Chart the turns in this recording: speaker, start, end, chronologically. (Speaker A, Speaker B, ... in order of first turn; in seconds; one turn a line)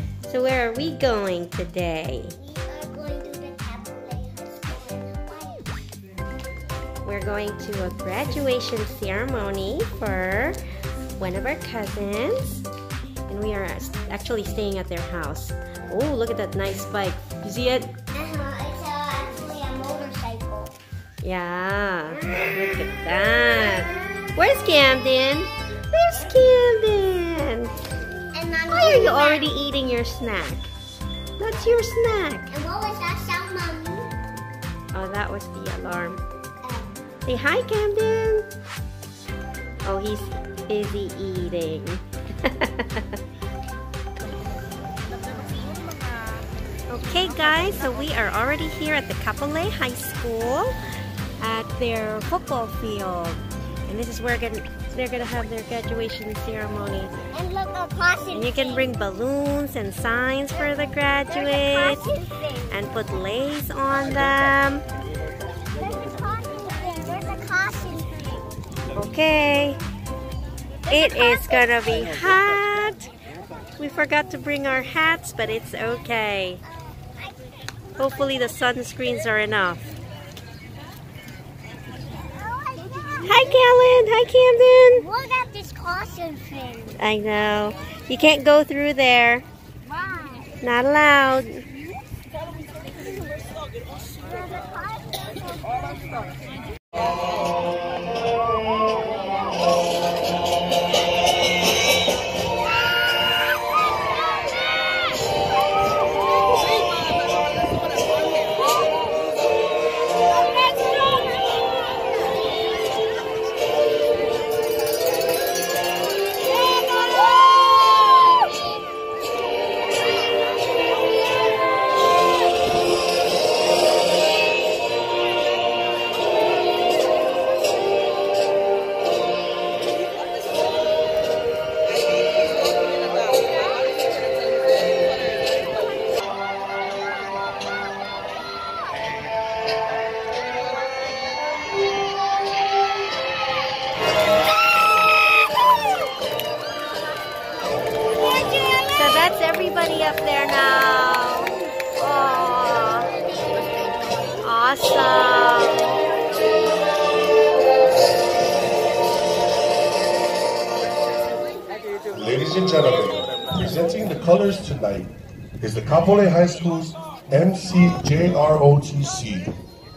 Speaker A: 0.2-2.4
Speaker B: 2.4-5.8
Speaker A: 7.0-10.6
Speaker A: 11.2-12.6
Speaker A: 13.3-18.0
Speaker B: 18.1-20.7
Speaker A: 21.2-27.8
Speaker B: 28.3-29.5
Speaker A: 28.7-30.7
Speaker A: 31.4-32.5
Speaker B: 32.5-34.1
Speaker A: 34.9-36.2
Speaker B: 36.6-36.9
Speaker A: 37.2-38.5
Speaker A: 39.9-43.2
Speaker A: 46.9-50.8
Speaker A: 51.4-57.1
Speaker B: 57.3-58.9
Speaker A: 58.3-62.1
Speaker B: 61.3-62.7
Speaker A: 62.7-64.8
Speaker B: 65.7-68.5
Speaker A: 68.9-69.8
Speaker A: 70.9-73.1
Speaker B: 70.9-71.2
Speaker A: 73.8-76.6
Speaker B: 76.7-77.5
Speaker A: 78.0-79.9
Speaker B: 82.3-83.4
Speaker A: 83.2-85.1
Speaker B: 85.0-86.9
Speaker A: 86.9-89.5
Speaker B: 89.9-90.5
Speaker A: 90.6-91.7
Speaker B: 94.2-95.9
Speaker B: 148.3-148.8
Speaker A: 148.8-153.1
Speaker B: 153.3-153.8
Speaker A: 154.4-156.0
Speaker C: 162.1-169.5